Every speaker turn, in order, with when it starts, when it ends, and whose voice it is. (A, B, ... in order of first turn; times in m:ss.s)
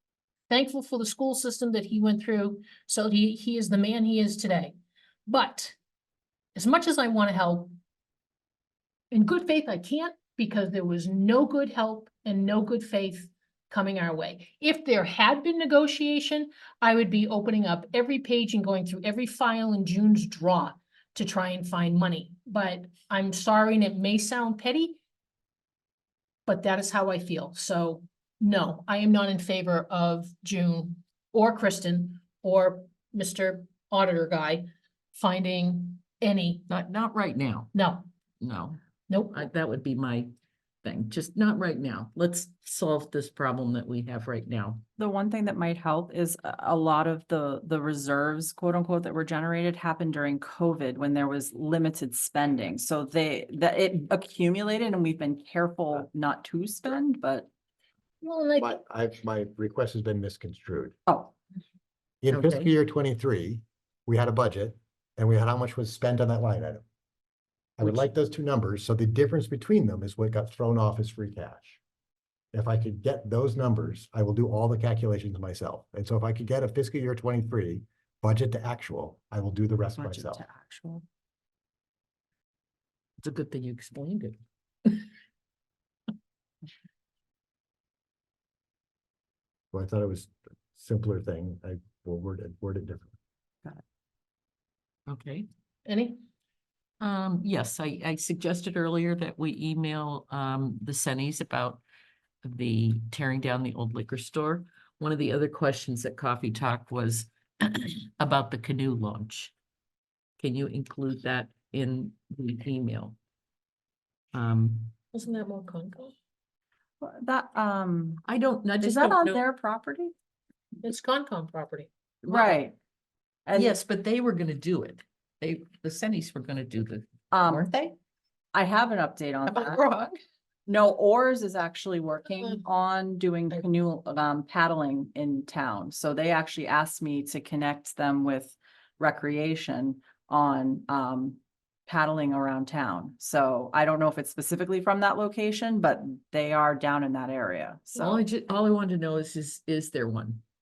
0:00.5-0:04.7 A
0:05.3-0:05.7 A
0:06.5-0:07.7 A
0:09.1-0:25.0 A
0:26.4-0:36.7 A
0:36.7-0:37.7 B
0:37.7-0:38.1 A
0:38.4-0:38.8 B
0:39.1-0:39.5 A
0:39.3-0:40.3 B
0:40.8-0:44.8 B
0:45.0-0:57.5 C
0:58.2-0:58.7 A
0:58.6-1:00.9 D
1:01.1-1:01.3 C
1:02.2-1:06.8 D
1:02.3-1:02.7 B
1:07.8-1:11.8 D
1:12.5-1:20.4 D
1:20.0-1:21.0 C
1:23.2-1:25.0 B
1:29.7-1:33.1 D
1:35.1-1:35.4 B
1:35.8-1:36.2 A
1:37.0-1:41.8 B
1:42.4-1:49.5 B
1:50.4-1:53.2 B
1:54.3-1:54.9 B
1:55.1-1:56.1 A
1:57.0-1:58.2 C
1:58.2-1:59.4 B
1:58.8-2:00.1 C
2:00.8-2:01.9 A
2:02.2-2:02.7 C
2:02.3-2:02.6 B
2:03.4-2:03.7 C
2:03.5-2:07.9 B
2:07.3-2:07.6 C
2:08.5-2:09.8 C
2:09.4-2:10.1 B
2:10.7-2:28.2 C
2:27.9-2:30.4 B